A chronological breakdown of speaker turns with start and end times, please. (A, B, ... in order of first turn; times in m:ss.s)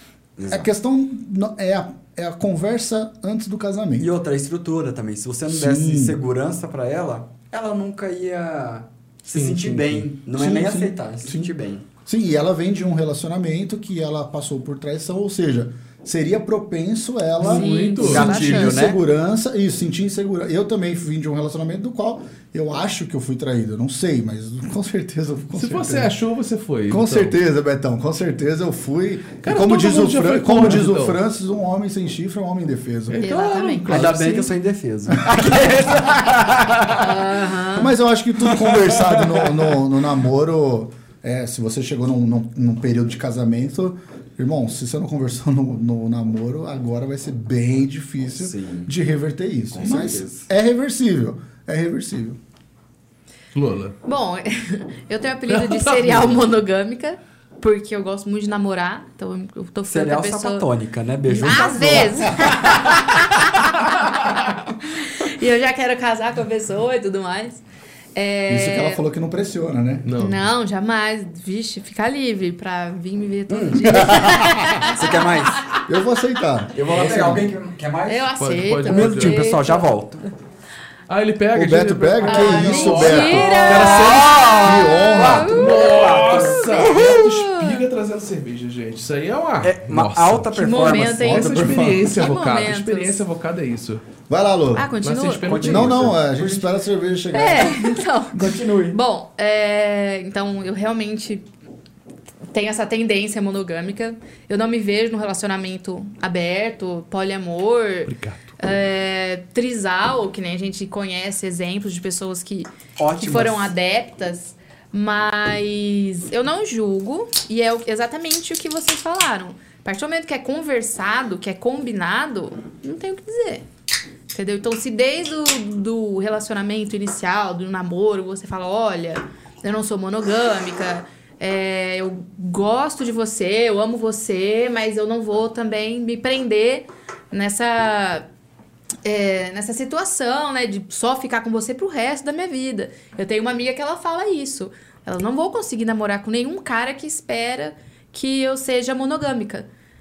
0:00.4-0:00.7 A
0:00.5-0:04.1 B
0:04.0-0:11.8 A
0:05.5-0:06.2 B
0:09.3-0:10.1 C
0:10.3-0:11.5 B
0:12.0-0:26.1 B
0:17.4-0:18.3 C
0:17.4-0:18.8 D
0:18.0-0:19.0 A
0:25.5-0:27.3 C
0:26.9-0:33.3 B
0:29.4-0:31.2 C
0:33.1-0:34.3 C
0:33.2-0:34.5 D
0:33.8-0:37.1 A
0:35.2-0:35.6 B
0:36.9-0:37.9 D
0:37.8-0:52.4 B
0:38.4-0:39.8 A
0:48.3-0:48.9 A
0:49.7-0:50.5 A
0:53.5-0:54.0 C
0:54.0-1:00.6 D
0:55.5-0:56.0 C
0:59.8-1:02.7 A
1:01.3-1:07.6 D
1:08.1-1:09.0 D
1:08.5-1:10.1 B
1:10.0-1:10.4 C
1:10.2-1:15.5 D
1:13.5-1:15.7 A
1:13.9-1:14.6 B
1:15.8-1:17.5 B
1:16.7-1:18.3 A
1:17.0-1:17.3 C
1:18.1-1:19.9 D
1:18.4-1:19.4 C
1:18.8-1:20.2 A
1:21.1-1:24.8 C
1:21.5-1:23.8 B
1:22.2-1:27.8 D
1:22.3-1:27.1 A
1:24.5-1:25.6 B
1:25.4-1:30.5 C
1:29.6-1:31.4 A
1:30.5-1:31.5 D
1:31.2-1:32.1 B
1:31.3-1:34.0 C
1:32.0-1:33.2 D
1:34.3-1:34.9 B
1:34.7-1:35.5 D
1:35.0-1:36.2 C
1:35.4-1:36.7 A
1:35.5-1:37.8 B
1:37.3-1:41.5 D
1:38.3-1:39.0 A
1:42.5-2:03.6 D
1:48.0-1:48.6 C
1:53.0-1:53.7 A
2:04.3-2:18.2 D
2:19.0-2:29.6 D